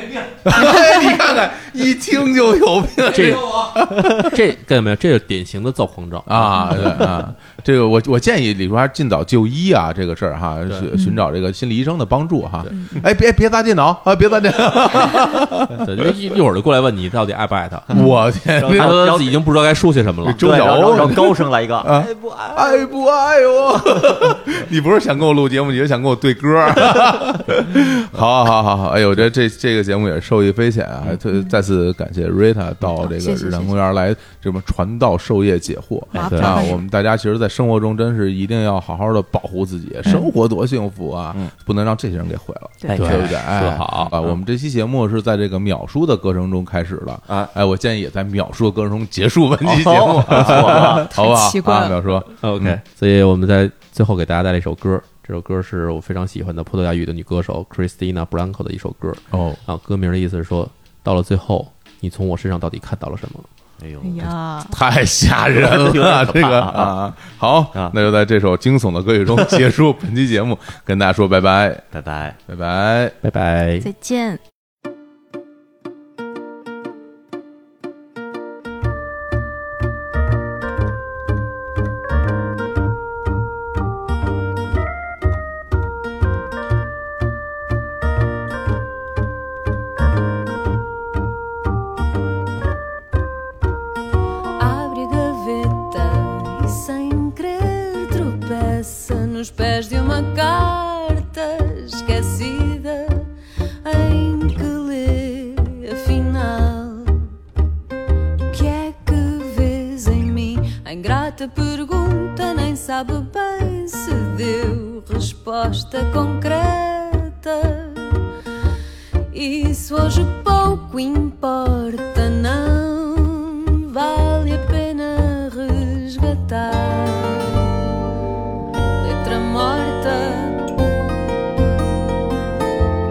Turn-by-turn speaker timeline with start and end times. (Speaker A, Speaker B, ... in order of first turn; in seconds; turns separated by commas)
Speaker A: 0.5-4.4, Speaker B: 3.1-7.0, Speaker A: 6.3-16.1, Speaker C: 10.9-11.3, Speaker C: 12.7-13.1, Speaker B: 15.7-17.9, Speaker A: 17.9-19.2, Speaker D: 17.9-19.4, Speaker B: 18.6-21.2, Speaker A: 20.2-52.8, Speaker D: 20.4-22.9, Speaker C: 32.9-33.8, Speaker D: 36.1-36.7, Speaker C: 36.1-36.8, Speaker B: 36.3-36.6, Speaker C: 42.8-43.3, Speaker B: 42.9-44.1, Speaker D: 44.1-44.4, Speaker D: 49.6-51.2, Speaker C: 50.9-52.0, Speaker B: 52.4-63.5, Speaker A: 59.3-59.6, Speaker D: 63.8-64.3, Speaker C: 64.0-64.8, Speaker A: 64.7-71.8, Speaker D: 65.5-67.0, Speaker D: 71.9-72.4, Speaker A: 72.5-73.2, Speaker B: 73.2-73.9, Speaker C: 73.8-74.4, Speaker E: 94.6-103.3, Speaker E: 103.8-107.3, Speaker E: 108.5-118.2, Speaker E: 119.3-127.7, Speaker E: 129.0-130.7